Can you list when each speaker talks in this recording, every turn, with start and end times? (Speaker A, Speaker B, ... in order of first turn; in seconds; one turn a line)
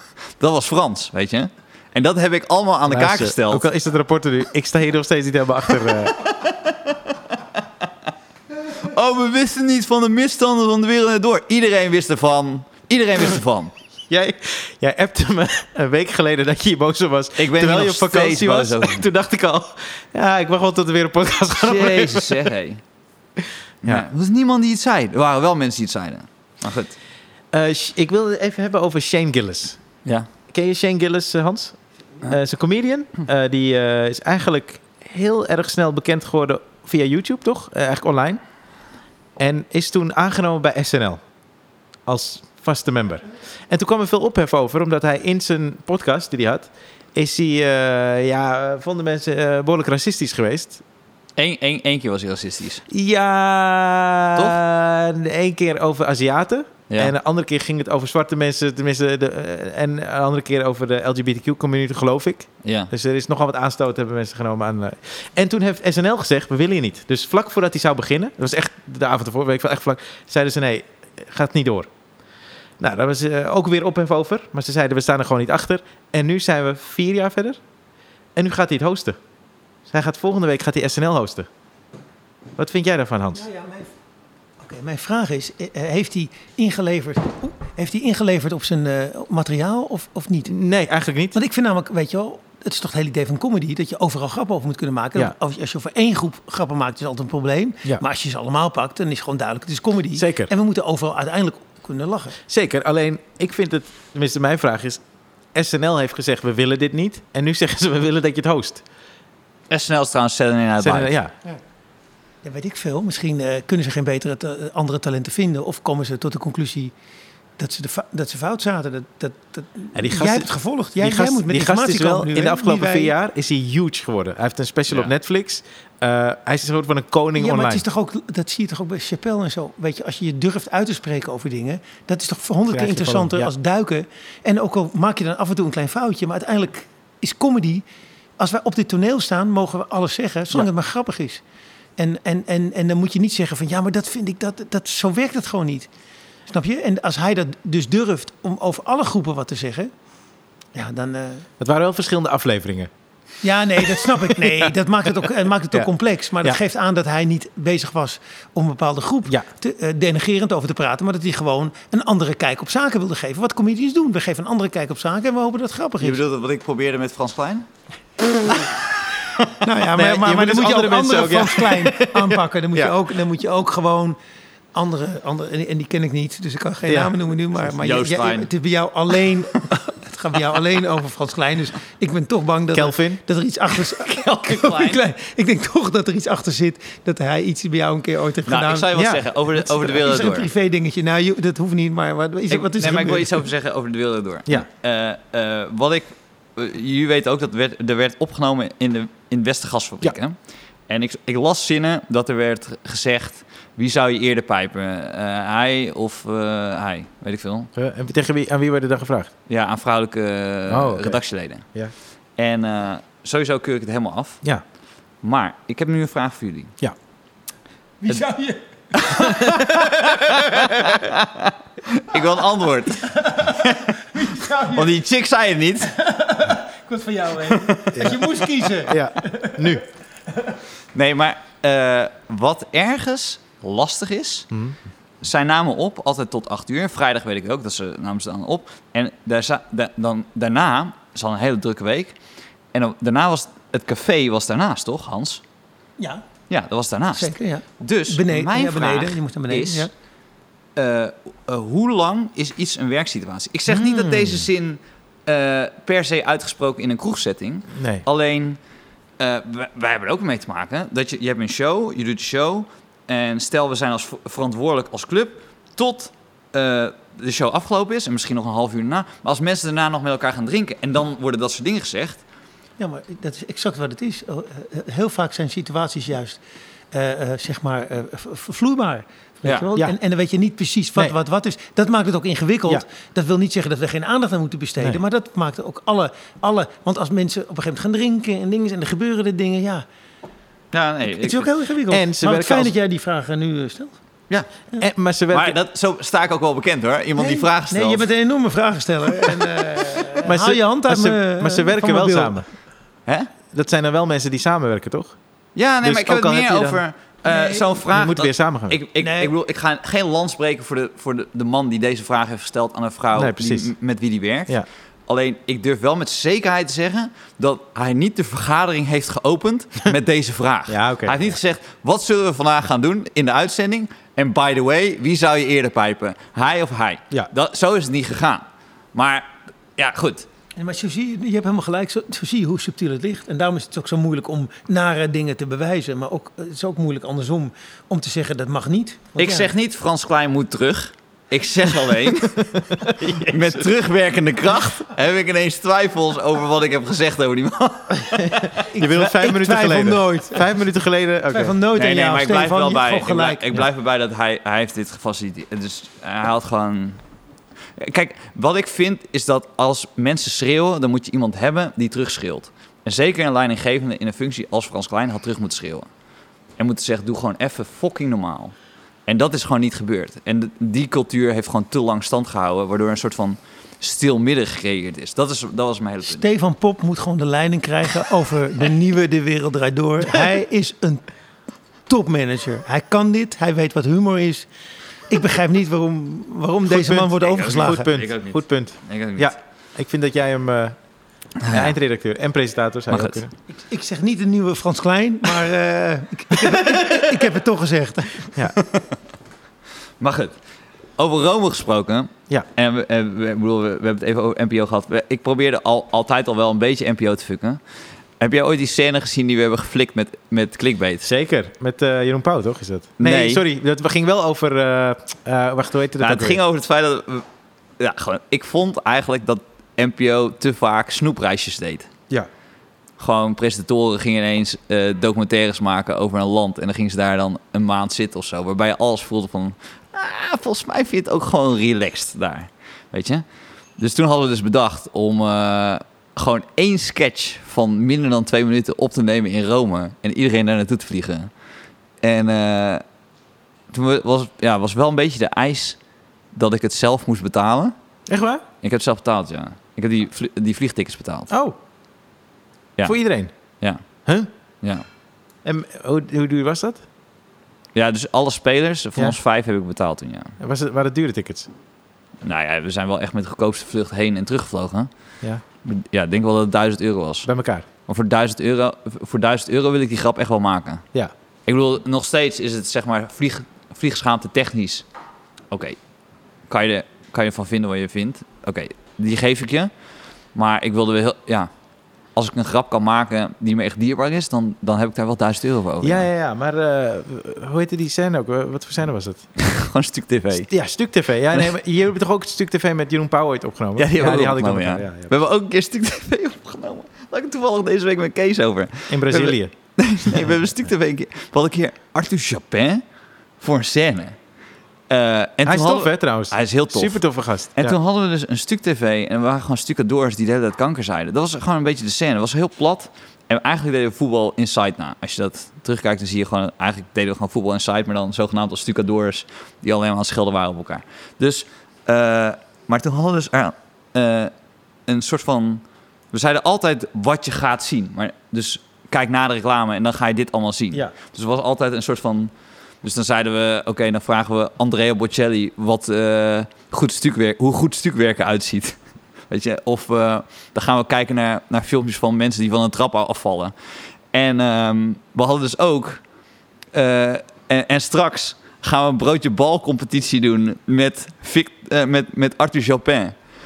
Speaker A: 0.4-3.6
Speaker B: 2.9-6.2
Speaker A: 6.1-7.2
Speaker A: 8.7-13.7
Speaker B: 14.1-22.5
Speaker A: 17.4-19.1
Speaker A: 21.6-22.8
Speaker A: 23.8-26.9
Speaker B: 27.5-29.8
Speaker B: 30.5-38.4
Speaker B: 39.4-41.2
Speaker B: 42.1-50.8
Speaker A: 51.4-52.8
Speaker B: 52.9-71.9
Speaker A: 62.6-62.9
Speaker B: 72.8-77.6
Speaker B: 78.3-79.2
Speaker B: 79.9-81.5
Speaker B: 82.6-83.5
Speaker C: 83.3-83.9
Speaker C: 84.6-90.5
Speaker B: 90.5-91.4
Speaker C: 91.3-102.4
Speaker B: 100.1-100.5
Speaker B: 102.5-105.0
Speaker B: 105.5-108.8
Speaker A: 109.7-111.1
Speaker B: 110.8-111.3
Speaker C: 112.4-116.9
Speaker C: 117.6-123.1
Speaker B: 119.9-127.8
Speaker C: 127.4-137.8
Speaker B: 132.7-133.5
Speaker C: 138.4-141.4
Speaker C: 142.0-145.9
Speaker C: 146.5-149.9
Speaker C: 150.7-151.5
Speaker B: 151.6-152.9
Speaker C: 153.4-166.2
Speaker B: 153.8-154.7
Speaker A: 166.0-167.7
Speaker C: 169.6-174.2
Speaker B: 169.9-173.0
Speaker C: 174.7-188.9
Speaker B: 176.8-177.1
Speaker A: 177.8-178.5
Speaker B: 182.7-183.2
Speaker A: 183.9-185.0
Speaker A: 188.4-190.5
Speaker B: 188.9-189.2
Speaker C: 189.5-193.4
Speaker A: 192.5-200.3
Speaker A: 200.9-207.7
Speaker B: 207.7-209.3
Speaker A: 209.5-211.6
Speaker B: 210.7-211.2
Speaker A: 212.4-214.4
Speaker A: 215.2-216.7
Speaker C: 218.0-219.9
Speaker A: 218.9-225.9
Speaker B: 219.3-221.1
Speaker C: 223.1-224.9
Speaker C: 225.9-229.8
Speaker A: 227.5-228.1
Speaker B: 227.9-229.8
Speaker A: 230.9-234.5
Speaker B: 234.5-234.8
Speaker A: 235.2-242.2
Speaker A: 242.7-245.4
Speaker C: 246.0-246.2
Speaker A: 246.5-249.9
Speaker C: 247.1-249.9
Speaker A: 250.8-258.6
Speaker B: 253.7-254.5
Speaker B: 257.7-258.0
Speaker A: 259.2-272.2
Speaker C: 272.8-276.4
Speaker C: 276.9-289.8
Speaker A: 290.7-291.5
Speaker C: 291.1-293.9
Speaker B: 291.9-292.7
Speaker B: 294.8-295.6
Speaker A: 295.3-298.1
Speaker C: 297.2-302.4
Speaker B: 300.2-302.4
Speaker B: 303.5-305.2
Speaker A: 305.6-330.3
Speaker B: 305.8-306.8
Speaker C: 307.3-307.8
Speaker B: 307.9-308.8
Speaker C: 309.0-309.3
Speaker B: 313.1-313.7
Speaker B: 320.7-321.3
Speaker C: 330.6-339.5
Speaker A: 339.2-348.7
Speaker B: 342.5-343.7
Speaker B: 348.2-351.5
Speaker C: 348.6-350.5
Speaker C: 351.3-353.6
Speaker A: 351.7-357.0
Speaker A: 357.8-365.9
Speaker A: 366.6-368.5
Speaker A: 369.1-376.2
Speaker C: 376.1-381.1
Speaker C: 381.9-384.5
Speaker C: 385.1-388.0
Speaker B: 386.7-390.8
Speaker A: 387.2-389.3
Speaker A: 391.4-391.8
Speaker B: 391.5-393.3
Speaker A: 392.9-393.2
Speaker C: 393.5-398.3
Speaker A: 398.6-398.9
Speaker A: 400.0-400.4
Speaker A: 401.0-407.6
Speaker A: 408.2-411.1
Speaker B: 411.0-416.4
Speaker A: 413.0-413.4
Speaker A: 416.0-417.2
Speaker A: 417.8-421.9
Speaker A: 423.0-433.2
Speaker A: 433.8-441.3
Speaker A: 442.0-442.8
Speaker A: 443.7-445.8
Speaker A: 446.3-447.7
Speaker B: 448.1-448.4
Speaker A: 448.6-451.3
Speaker B: 451.3-451.6
Speaker B: 452.8-453.3
Speaker B: 455.4-456.8
Speaker A: 457.7-460.3
Speaker B: 460.4-461.5
Speaker A: 462.2-464.9
Speaker A: 465.6-467.3
Speaker B: 467.2-467.6
Speaker A: 467.9-470.8
Speaker A: 471.5-474.8
Speaker A: 475.5-475.8
Speaker A: 476.5-479.7
Speaker A: 480.3-481.5
Speaker A: 482.1-486.1
Speaker B: 485.8-489.2
Speaker A: 489.4-490.5
Speaker B: 490.5-495.1
Speaker A: 493.8-502.8
Speaker B: 498.9-499.5
Speaker A: 503.4-504.1
Speaker A: 504.9-507.0
Speaker B: 505.4-507.8
Speaker A: 507.5-524.3
Speaker A: 524.9-532.3
Speaker A: 532.8-538.8
Speaker A: 539.3-543.5
Speaker A: 544.1-546.0
Speaker A: 546.7-553.1